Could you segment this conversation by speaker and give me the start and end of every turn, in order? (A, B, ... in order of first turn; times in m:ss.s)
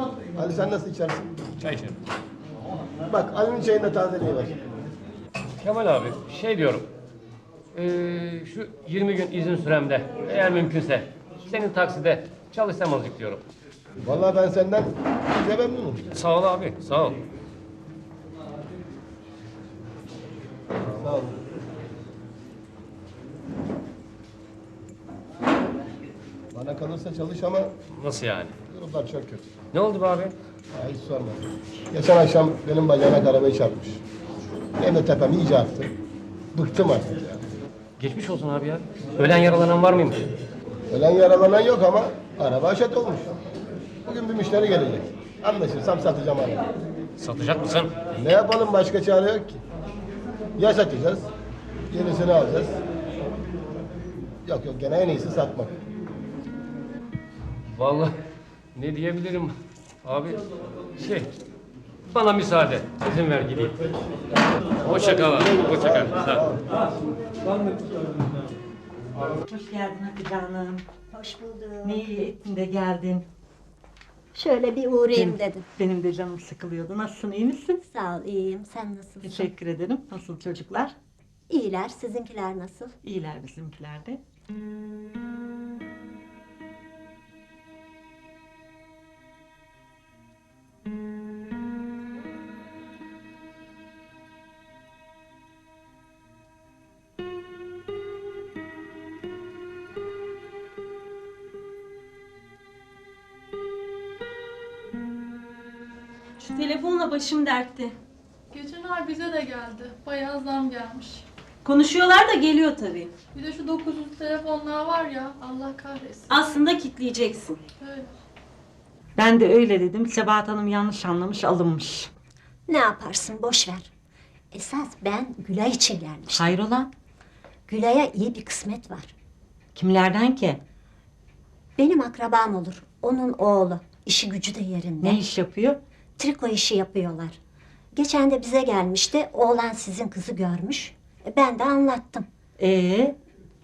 0:00.3-0:01.4 A
0:01.6-0:02.0 B
0:03.1-0:04.6 A
0:05.6-0:06.9 B
0:07.7-0:13.4 B
0:14.0-0:16.0 A
0:16.1-0:17.2 B
0:20.8-0:21.4 A
0:26.5-0:27.7 A
0:27.9-0:28.5 B
0:28.7-0:29.5 A
0:29.7-0:30.4 B
0:30.7-0:34.0 A
0:34.8-0:35.9 A
0:36.5-0:37.4 A
0:38.0-0:40.2 B
0:40.9-0:43.3 A
0:44.0-0:46.6 A
0:47.2-0:47.9 B
0:48.2-0:49.6 A
0:50.6-0:51.3 A
0:51.9-0:52.8 A
0:54.4-0:55.8 A
0:57.7-0:58.2 B
0:58.8-0:59.5 B
1:00.0-1:00.4 B
1:01.0-1:01.3 B
1:02.1-1:03.8 B
1:04.8-1:06.5 B
1:09.4-1:10.9 C
1:11.1-1:12.2 D
1:11.8-1:13.3 C
1:14.3-1:15.6 D
1:15.1-1:17.8 C
1:17.8-1:19.5 D
1:19.2-1:20.9 C
1:21.5-1:22.9 D
1:23.0-1:24.2 C
1:46.4-1:48.0 E
1:48.5-1:51.2 F
1:51.6-1:53.1 E
1:53.3-1:56.3 F
1:56.3-1:57.6 E
1:57.8-1:58.1 F
1:59.2-2:02.1 C
2:02.7-2:03.9 D
2:04.5-2:06.6 D
2:06.3-2:06.9 C
2:07.7-2:09.1 D
2:09.8-2:10.6 C
2:11.8-2:15.2 D
2:15.0-2:15.8 C
2:16.2-2:17.4 D
2:17.9-2:22.3 D
2:22.6-2:23.2 C